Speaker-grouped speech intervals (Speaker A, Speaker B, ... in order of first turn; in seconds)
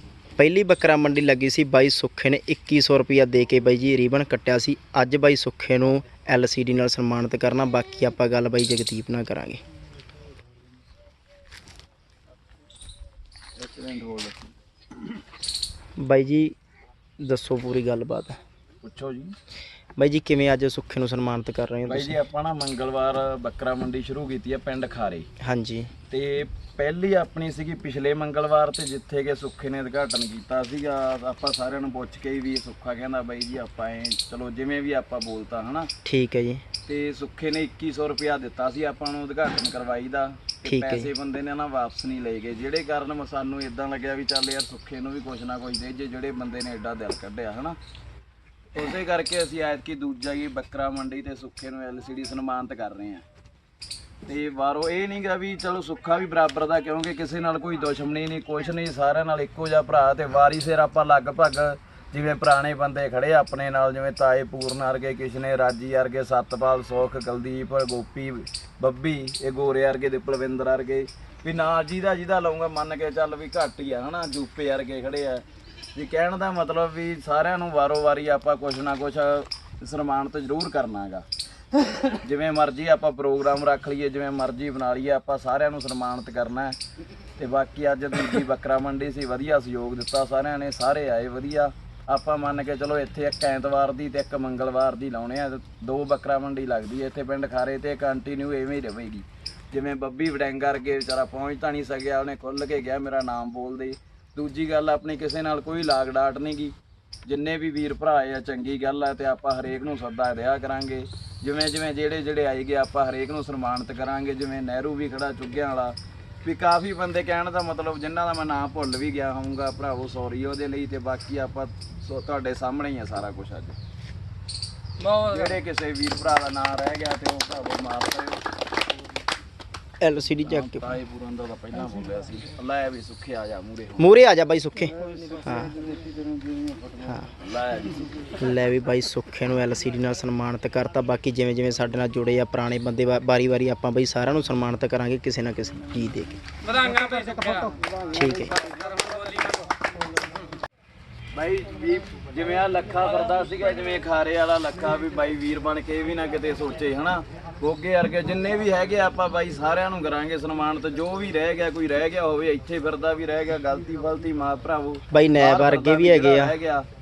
Speaker A: 0.4-9.6, 16.0-16.5, 17.2-18.4, 20.0-22.2, 25.4-25.9, 36.0-36.6, 40.6-41.1, 130.0-130.8, 134.0-135.7, 137.0-137.3, 138.4-146.3, 148.1-148.6, 165.1-166.5
Speaker B: 13.6-14.5, 18.8-19.3, 21.9-25.3, 26.1-35.9, 36.9-47.8, 48.7-53.2, 54.2-81.2, 82.1-86.8, 87.4-106.7, 107.2-123.8, 125.1-128.4, 130.4-134.1, 134.9-138.3, 151.3-166.9
Speaker C: 146.7-147.8, 148.6-149.7